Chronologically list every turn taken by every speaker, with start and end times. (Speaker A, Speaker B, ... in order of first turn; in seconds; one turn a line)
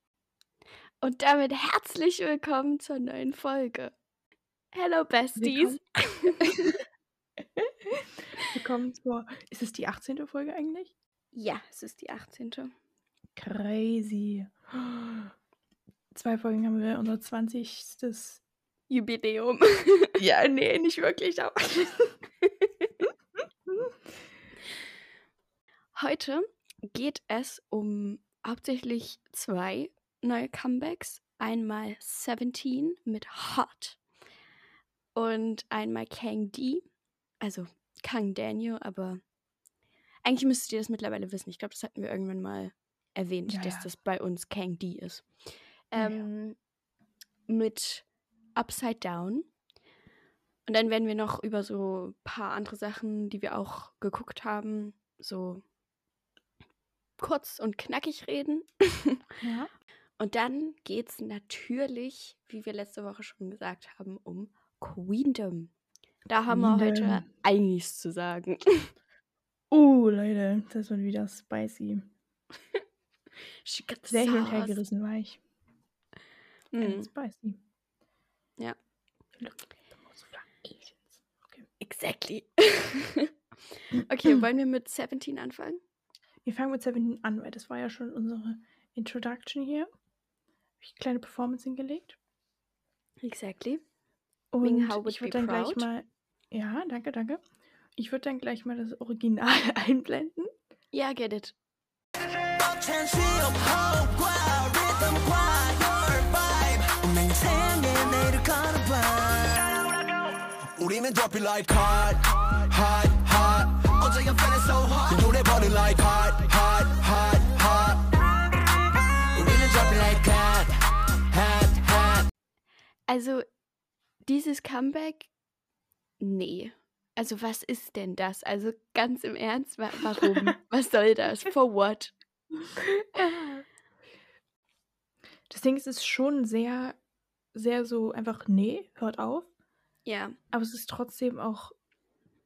Speaker A: 1.0-3.9
Speaker A: 4.7-6.6
Speaker B: 5.4-5.8
Speaker B: 6.4-6.7
Speaker B: 7.4-10.9
Speaker A: 11.3-12.7
Speaker B: 13.4-15.3
Speaker B: 16.1-18.4
Speaker A: 18.9-20.2
Speaker B: 20.2-22.2
Speaker A: 25.9-34.0
Speaker A: 35.1-36.9
Speaker A: 37.4-39.2
Speaker A: 40.2-45.3
Speaker B: 43.5-43.9
Speaker A: 45.9-46.6
Speaker B: 46.0-46.3
Speaker A: 47.5-49.5
Speaker A: 50.7-55.6
Speaker A: 57.2-59.2
Speaker B: 59.4-59.7
Speaker A: 60.2-65.7
Speaker A: 66.3-68.9
Speaker B: 66.5-67.2
Speaker B: 69.7-72.1
Speaker A: 73.7-74.8
Speaker B: 74.1-75.4
Speaker A: 76.7-77.1
Speaker B: 76.8-77.6
Speaker B: 79.4-81.7
Speaker A: 81.8-83.3
Speaker A: 83.9-85.8
Speaker B: 84.0-84.4
Speaker B: 86.5-89.9
Speaker B: 90.8-92.2
Speaker A: 93.2-93.8
Speaker B: 94.5-97.4
Speaker A: 94.6-95.9
Speaker B: 98.0-100.5
Speaker A: 100.9-101.5
Speaker C: 102.3-109.9
Speaker C: 110.8-118.3
Speaker C: 119.3-122.3
Speaker A: 123.1-123.5
Speaker A: 124.2-125.3
Speaker A: 126.2-132.1
Speaker B: 132.8-133.7
Speaker B: 135.5-137.0
Speaker B: 137.5-139.5
Speaker A: 140.1-140.4
Speaker B: 140.5-141.8